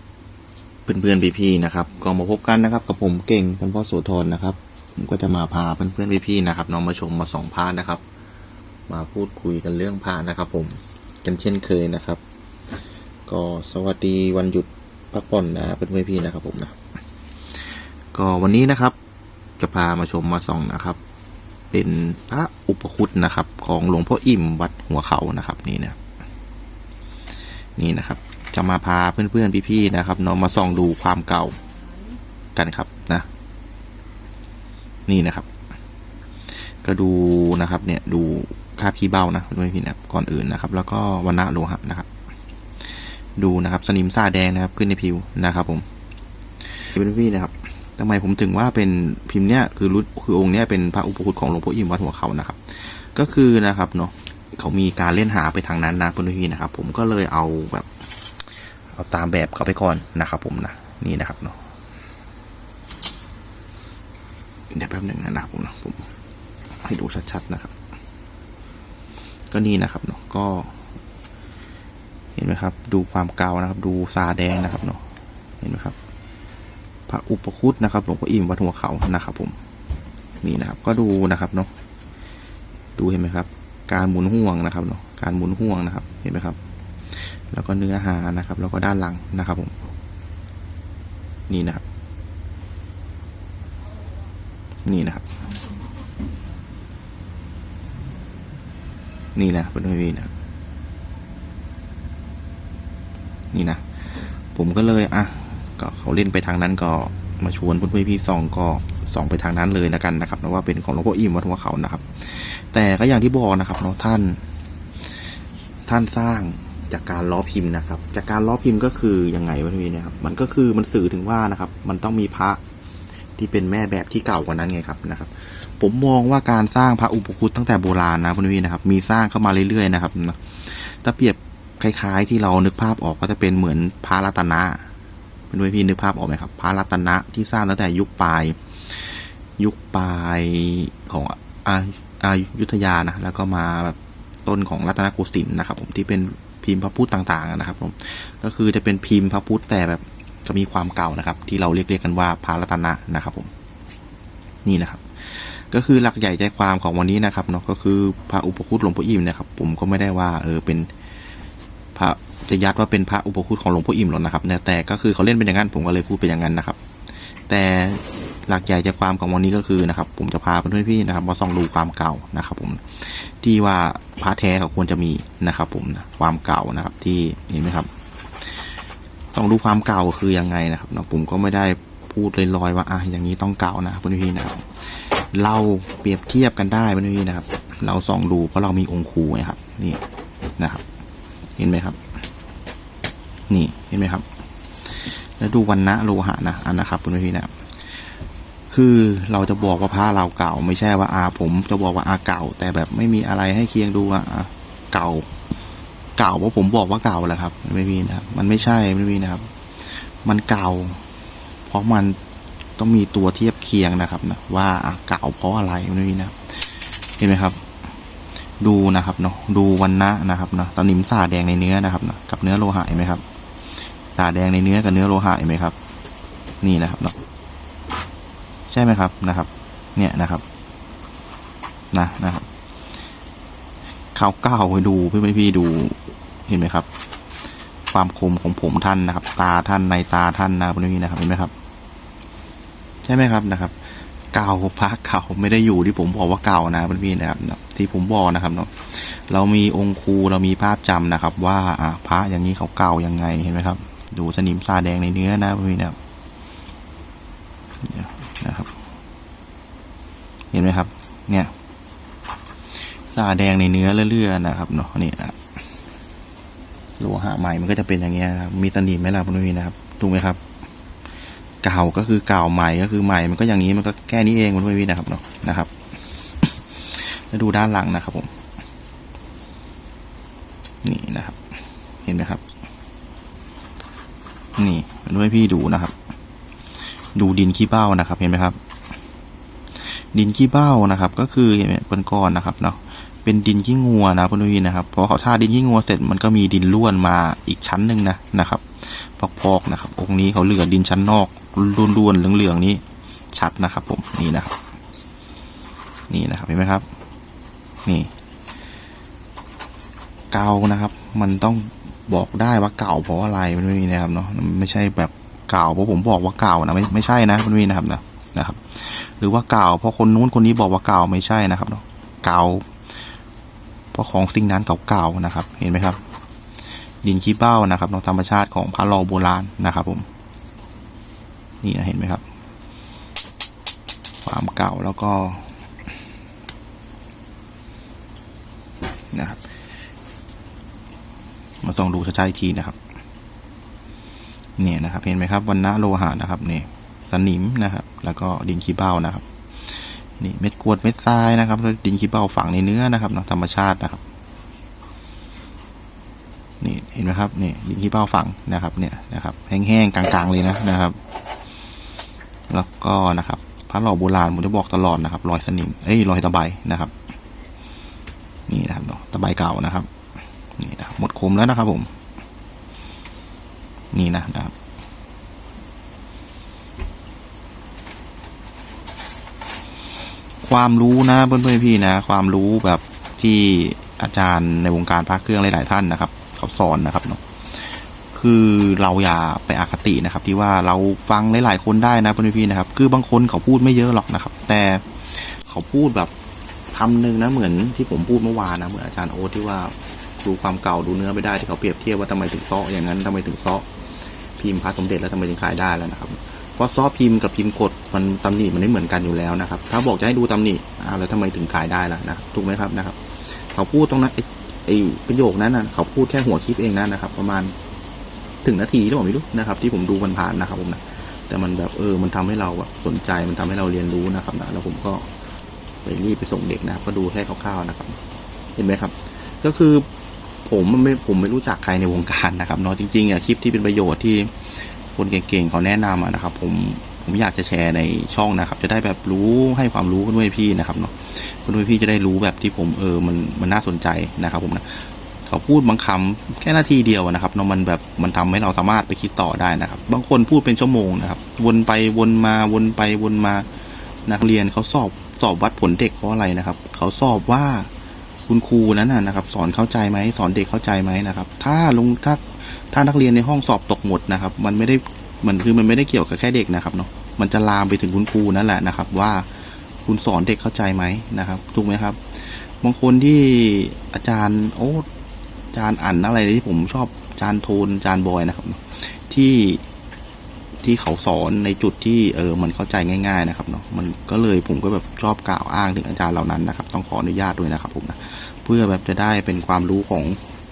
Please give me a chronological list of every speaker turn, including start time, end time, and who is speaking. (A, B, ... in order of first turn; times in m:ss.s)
0:00.8-0:08.0 A
0:08.9-0:12.2 A
0:13.3-0:16.8 A
0:17.5-0:19.0 A
0:19.6-0:21.0 A
0:21.7-0:26.0 A
0:27.8-0:31.6 A
0:32.6-0:33.3 A
0:35.1-0:35.4 A
0:36.8-0:42.1 A
0:43.4-0:45.8 A
0:46.7-0:57.9 A
0:58.9-1:01.6 A
1:04.7-1:06.1 A
1:06.8-1:07.7 A
1:09.5-1:10.7 A
1:12.4-1:15.0 A
1:15.6-1:16.0 A
1:17.1-1:19.5 A
1:20.4-1:21.7 A
1:23.0-1:26.6 A
1:27.1-1:29.7 A
1:31.5-1:31.8 A
1:34.8-1:35.4 A
1:39.4-1:40.3 A
1:43.5-1:54.4 A
1:55.9-2:02.6 A
2:03.4-2:14.9 A
2:15.5-2:33.5 A
2:34.6-2:40.9 A
2:41.9-2:46.8 A
2:47.5-2:57.9 A
2:59.3-3:10.0 A
3:10.6-3:10.8 A
3:11.6-3:12.0 A
3:13.5-3:14.2 A
3:14.8-3:18.1 A
3:18.7-3:25.3 A
3:26.2-3:31.0 A
3:31.7-3:32.2 A
3:32.8-3:37.6 A
3:38.6-3:43.2 A
3:44.1-3:45.8 A
3:46.6-3:47.2 A
3:48.7-3:50.4 A
3:51.9-3:52.5 A
3:54.1-3:56.9 A
3:57.9-4:01.5 A
4:03.0-4:16.0 A
4:17.8-4:18.7 A
4:20.5-4:21.5 A
4:22.7-4:25.4 A
4:27.0-4:30.4 A
4:31.6-4:35.7 A
4:36.4-4:38.3 A
4:40.8-4:41.5 A
4:42.0-4:42.4 A
4:44.6-4:45.9 A
4:47.1-4:48.6 A
4:49.8-5:04.6 A
5:06.1-5:06.8 A
5:07.8-5:08.1 A
5:10.3-5:22.7 A
5:23.9-5:26.0 A
5:27.0-5:30.0 A
5:31.6-5:32.2 A
5:34.2-5:35.5 A
5:39.1-5:39.4 A
5:41.6-5:42.8 A
5:44.6-5:54.0 A
5:56.6-6:01.0 A
6:02.5-6:06.9 A
6:08.5-6:09.9 A
6:10.6-6:11.9 A
6:13.9-6:14.5 A
6:20.4-6:36.1 A
6:36.7-6:43.7 A
6:44.4-6:57.5 A
6:58.4-7:05.1 A
7:05.8-7:08.0 A
7:08.6-7:09.9 A
7:10.4-7:33.5 A
7:34.0-7:37.7 A
7:38.3-7:49.3 A
7:49.8-7:54.8 A
7:55.5-7:59.6 A
8:00.6-8:10.2 A